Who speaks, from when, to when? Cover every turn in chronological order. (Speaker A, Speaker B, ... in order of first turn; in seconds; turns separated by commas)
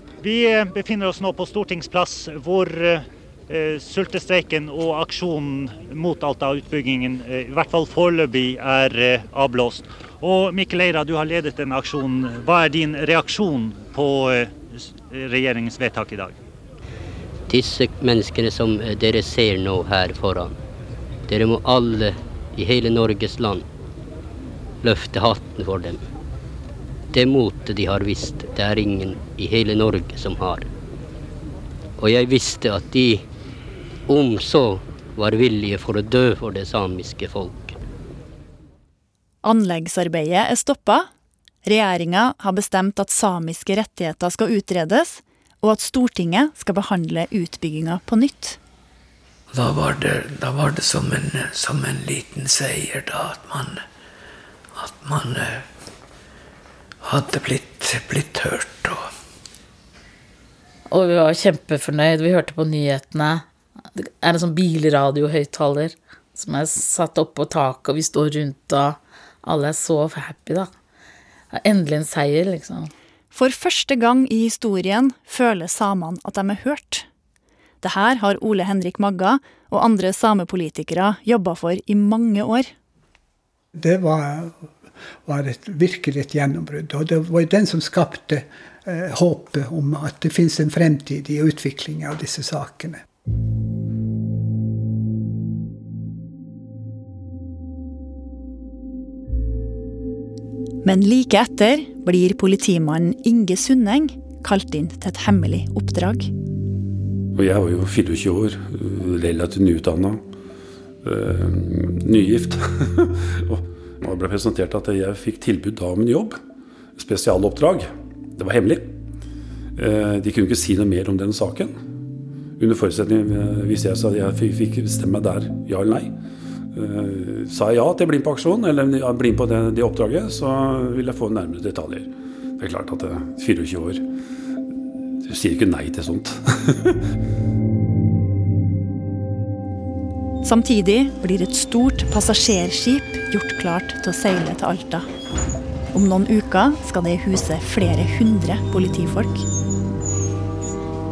Speaker A: 0.2-16.4, Speaker B: 17.5-20.6, Speaker B: 21.3-23.6, Speaker B: 24.8-26.0, Speaker B: 27.1-30.7, Speaker B: 32.0-33.3, Speaker B: 34.1-37.8, Speaker C: 39.4-41.1, Speaker C: 41.6-48.6, Speaker D: 49.5-53.8, Speaker D: 54.7-55.6, Speaker D: 57.0-59.1, Speaker E: 60.9-70.7, Speaker E: 71.5-72.9, Speaker C: 73.3-77.0, Speaker C: 77.8-82.7, Speaker F: 83.7-84.7, Speaker F: 85.2-93.0, Speaker C: 100.8-106.3, Speaker G: 107.3-110.2, Speaker G: 111.0-116.4, Speaker G: 117.0-118.9, Speaker G: 119.8-121.8, Speaker G: 122.6-126.1, Speaker G: 126.7-134.0, Speaker G: 135.2-137.0, Speaker C: 140.4-145.1, Speaker C: 145.9-149.4